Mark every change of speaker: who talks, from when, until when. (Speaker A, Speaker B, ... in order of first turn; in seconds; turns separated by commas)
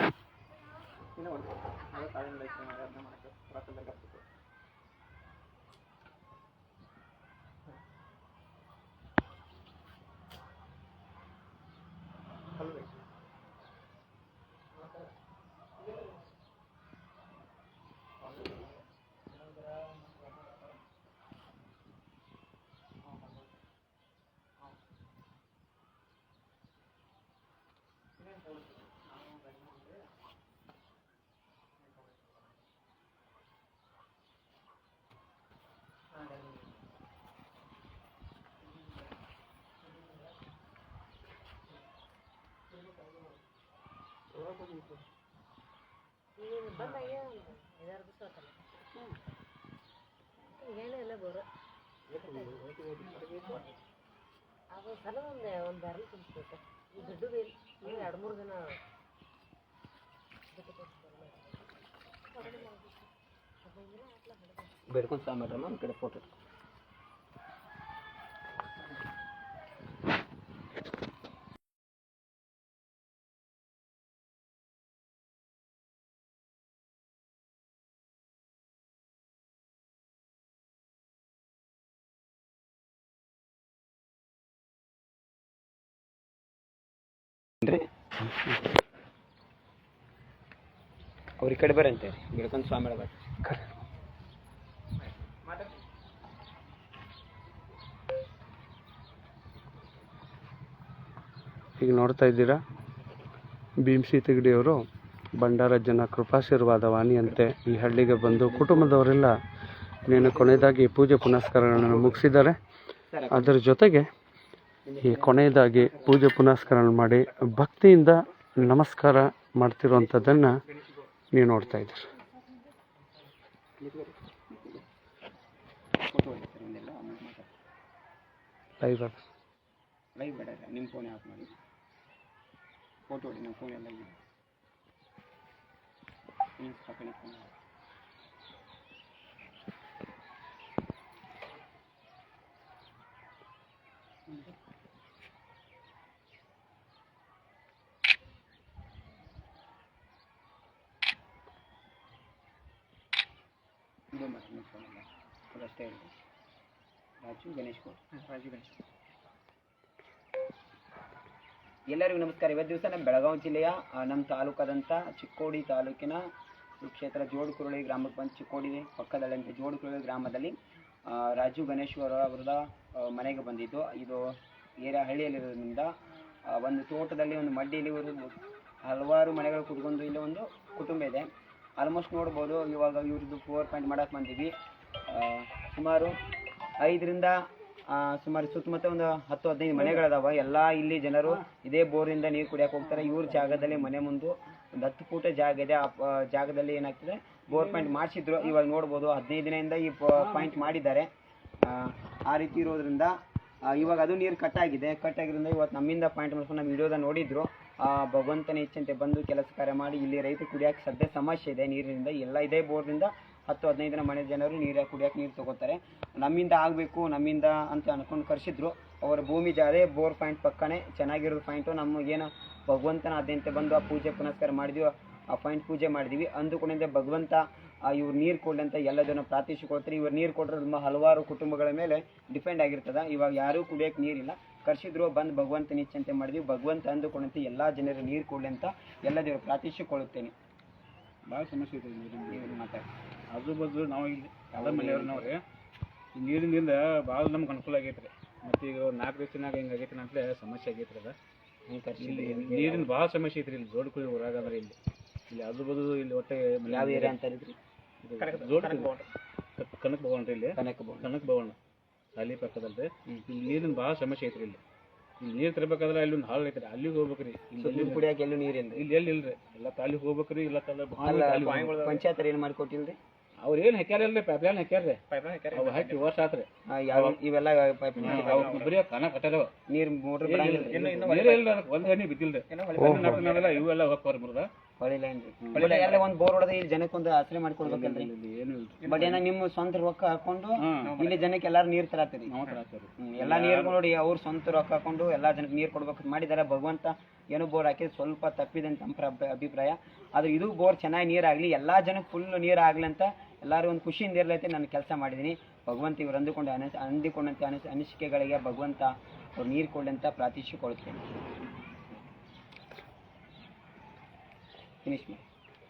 Speaker A: 1.1-4.2, Speaker A: 12.6-12.9, Speaker B: 46.4-48.6, Speaker B: 50.5-51.5, Speaker B: 52.1-52.6, Speaker C: 52.2-53.2, Speaker B: 54.7-58.8, Speaker B: 60.5-61.6, Speaker B: 62.3-63.1, Speaker B: 63.6-64.7, Speaker D: 64.9-66.3, Speaker D: 91.4-93.1, Speaker E: 93.5-93.7, Speaker E: 101.8-102.6, Speaker E: 103.8-104.8, Speaker E: 105.4-109.4, Speaker D: 108.5-108.8, Speaker E: 110.0-112.6, Speaker D: 110.1-110.6, Speaker D: 111.8-112.2, Speaker D: 113.1-113.5, Speaker E: 113.3-114.1, Speaker D: 114.8-116.2, Speaker E: 115.0-120.5, Speaker D: 119.9-120.4, Speaker E: 121.3-122.0, Speaker D: 123.8-124.1, Speaker D: 126.0-127.5, Speaker E: 128.8-129.2, Speaker D: 130.2-131.5, Speaker D: 133.1-134.2, Speaker D: 136.6-137.5, Speaker D: 154.1-156.1, Speaker D: 157.2-158.0, Speaker A: 158.3-158.7, Speaker D: 161.9-166.2, Speaker D: 166.8-170.5, Speaker D: 171.1-174.2, Speaker D: 174.8-175.9, Speaker D: 176.5-181.3, Speaker D: 181.8-184.5, Speaker D: 185.1-186.1, Speaker D: 186.8-187.3, Speaker D: 187.9-201.1, Speaker C: 193.0-193.4, Speaker C: 197.5-197.9, Speaker C: 200.2-200.8, Speaker D: 201.6-203.1, Speaker D: 203.6-240.3, Speaker C: 241.3-242.6, Speaker D: 242.3-242.9, Speaker C: 243.3-245.4, Speaker D: 244.5-245.3, Speaker C: 246.1-251.2, Speaker D: 251.7-252.9, Speaker C: 252.0-254.8, Speaker C: 255.3-257.2, Speaker D: 256.7-257.6, Speaker C: 258.0-259.0, Speaker A: 258.2-259.1, Speaker C: 259.6-261.6, Speaker D: 260.6-261.1, Speaker C: 262.1-264.6, Speaker C: 265.2-268.1, Speaker D: 267.6-268.8, Speaker C: 268.7-271.7, Speaker D: 270.9-273.0, Speaker A: 271.6-272.0, Speaker C: 273.4-277.2, Speaker A: 275.1-276.0, Speaker D: 276.7-278.7, Speaker C: 278.0-279.5, Speaker A: 278.0-278.7, Speaker D: 279.7-281.1, Speaker C: 280.2-284.5, Speaker A: 280.7-281.4, Speaker A: 282.5-283.6, Speaker E: 282.8-283.2, Speaker D: 284.8-288.1, Speaker C: 285.4-286.0, Speaker C: 287.6-289.2, Speaker D: 288.8-292.3, Speaker C: 290.6-291.0, Speaker A: 290.8-291.2, Speaker C: 292.2-293.8, Speaker D: 293.0-311.0, Speaker D: 314.8-315.2